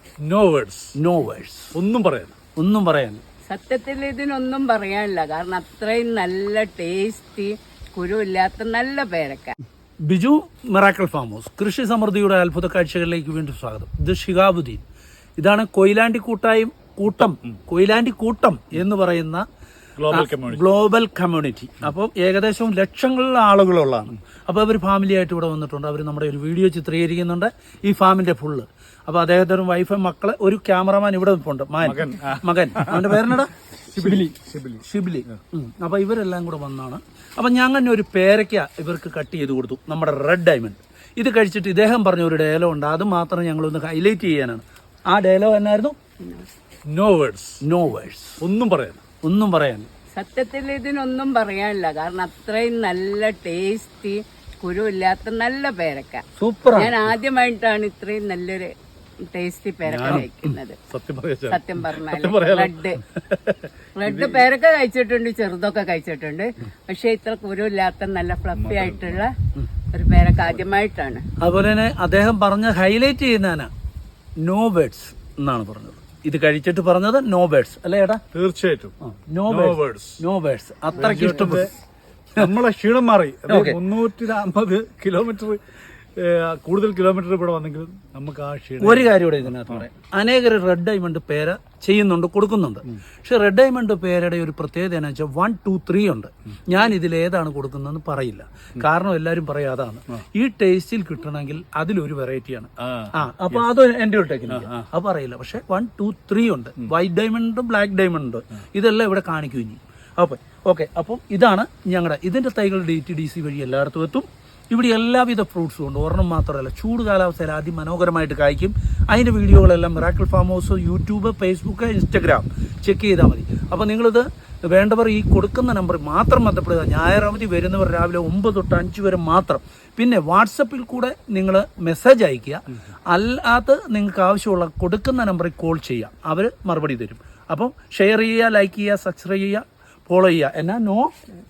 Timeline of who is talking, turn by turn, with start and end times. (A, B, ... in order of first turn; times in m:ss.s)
0:00.2-0:01.0 A
0:01.0-0:01.7 B
0:01.7-0:02.4 A
0:02.6-0:03.2 B
0:03.5-0:09.6 C
0:10.0-0:14.8 B
0:15.4-0:19.4 B
0:20.0-0:20.6 A
0:20.1-0:34.3 B
0:31.8-0:33.2 A
0:33.9-0:35.4 A
0:34.8-0:46.0 B
0:46.2-0:46.5 C
0:46.9-0:47.6 A
0:47.6-0:48.4 B
0:48.4-0:49.0 A
0:49.2-0:49.9 B
0:50.2-0:56.2 C
0:56.4-0:57.0 B
0:56.8-0:58.7 C
0:59.3-1:00.8 C
0:59.9-1:00.3 B
1:00.9-1:04.5 A
1:01.5-1:03.0 C
1:04.0-1:09.4 C
1:08.6-1:09.2 A
1:09.9-1:11.2 C
1:11.4-1:13.7 B
1:14.4-1:18.2 B
1:18.3-1:19.0 A
1:19.0-1:21.7 B
1:19.5-1:20.2 A
1:21.0-1:21.7 A
1:22.4-1:29.8 A
1:23.5-1:23.8 B
1:28.8-2:21.1 B
1:42.8-1:43.6 A
1:44.5-1:44.9 A